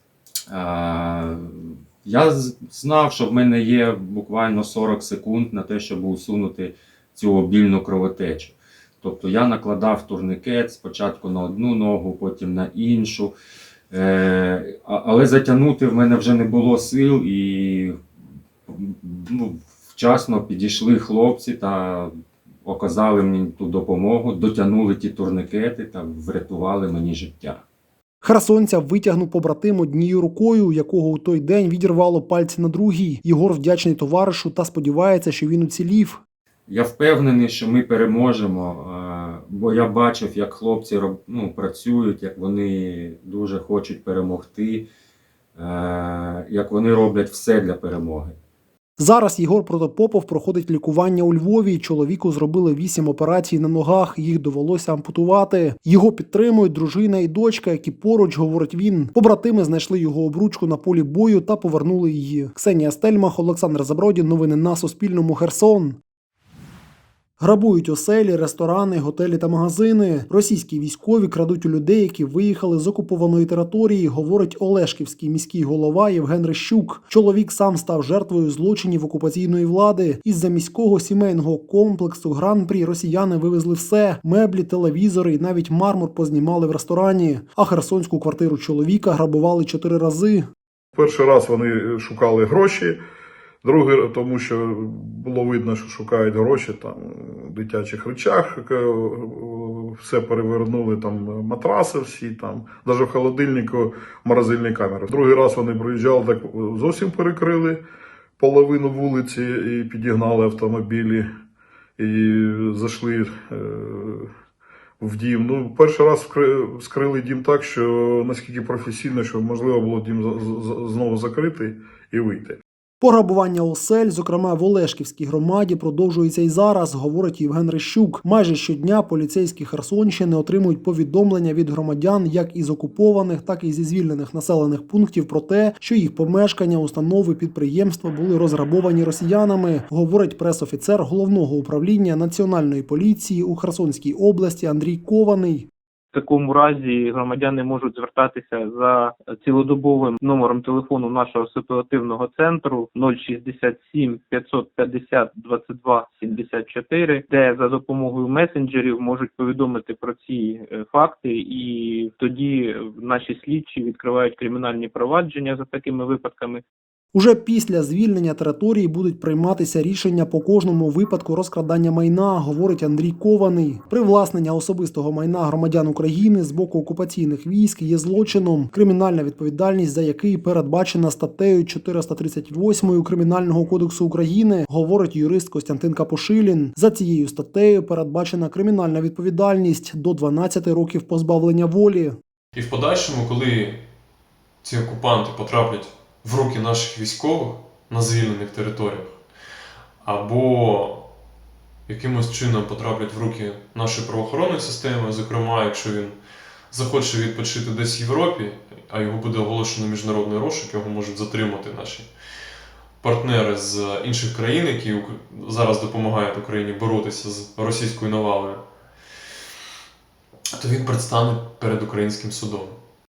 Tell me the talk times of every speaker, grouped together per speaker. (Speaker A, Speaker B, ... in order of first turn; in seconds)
Speaker A: 0.5-13.3, 13.9-17.9, 18.7-22.1, 22.6-27.6, 36.7-44.9, 45.5-48.4
Speaker B: 28.2-36.2, 49.0-66.0, 67.4-90.5, 123.0-145.7, 167.1-192.2
Speaker C: 90.9-93.0, 93.6-107.8, 108.4-111.3, 112.0-114.3, 115.0-122.6
Speaker D: 146.1-166.6
Speaker E: 192.5-193.8, 194.6-199.2, 200.0-201.1, 201.9-206.2, 206.7-212.1, 213.0-218.6, 220.6-222.8